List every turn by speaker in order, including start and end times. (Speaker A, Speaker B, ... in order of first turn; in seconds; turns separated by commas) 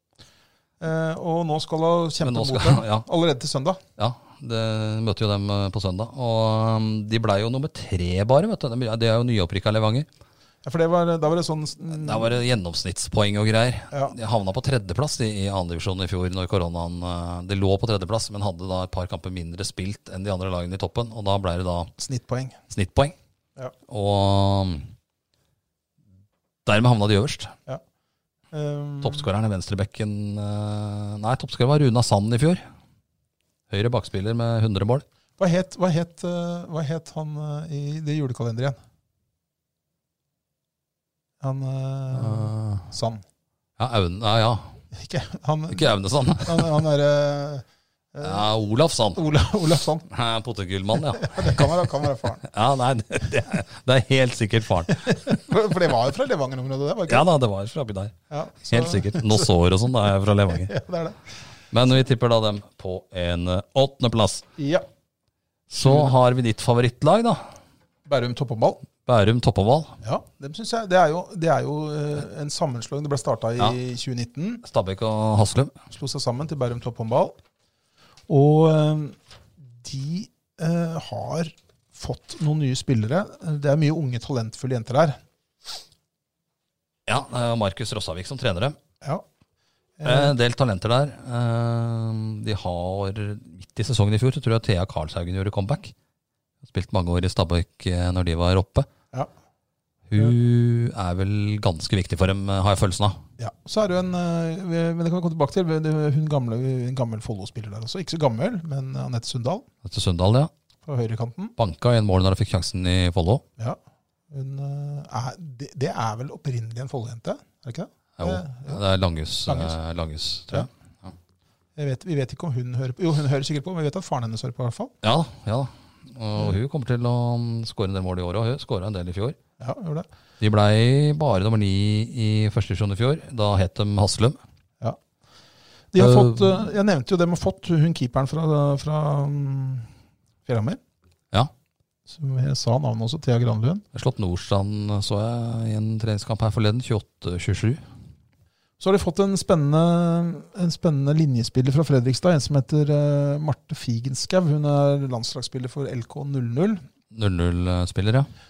Speaker A: 0.8-3.8, Speaker B: 2.2-3.0, Speaker B: 4.0-10.1, Speaker A: 10.6-12.3, Speaker B: 11.9-21.9, Speaker A: 22.0-22.6, Speaker B: 22.7-23.1, Speaker B: 23.9-24.9, Speaker B: 26.6-27.5, Speaker A: 28.5-29.3, Speaker B: 29.0-32.6, Speaker B: 33.7-35.0, Speaker A: 35.4-38.8, Speaker A: 41.4-43.2, Speaker B: 42.1-42.9, Speaker B: 43.8-44.8, Speaker A: 44.9-45.9, Speaker B: 45.7-46.8, Speaker A: 46.4-48.5, Speaker B: 48.2-49.2, Speaker A: 49.1-50.1, Speaker B: 50.1-51.7, Speaker A: 51.1-52.4, Speaker B: 52.4-55.2, Speaker A: 55.0-57.3, Speaker B: 57.1-58.1, Speaker A: 58.3-59.5, Speaker B: 58.7-60.7, Speaker A: 60.5-61.2, Speaker B: 61.7-64.4, Speaker A: 64.6-64.8, Speaker B: 65.7-67.4, Speaker A: 65.8-66.1, Speaker A: 68.0-68.8, Speaker B: 69.0-69.9, Speaker A: 70.0-74.6, Speaker B: 74.6-75.7, Speaker A: 75.9-77.3, Speaker A: 78.3-79.2, Speaker A: 79.7-85.2, Speaker B: 87.1-88.8, Speaker A: 90.0-90.3, Speaker B: 90.0-95.9, Speaker B: 96.6-98.9, Speaker B: 100.1-103.2, Speaker A: 103.4-109.7, Speaker B: 109.8-110.5, Speaker A: 110.8-111.5, Speaker B: 111.6-113.4, Speaker A: 114.3-118.8, Speaker B: 118.2-121.1, Speaker A: 119.5-119.8, Speaker A: 121.8-124.9, Speaker B: 125.0-129.4, Speaker A: 129.6-130.1, Speaker B: 130.4-134.4, Speaker A: 135.9-139.9, Speaker B: 136.0-136.6, Speaker A: 140.4-140.8, Speaker A: 142.1-143.8, Speaker B: 143.9-147.8, Speaker A: 148.8-156.8, Speaker B: 157.1-158.3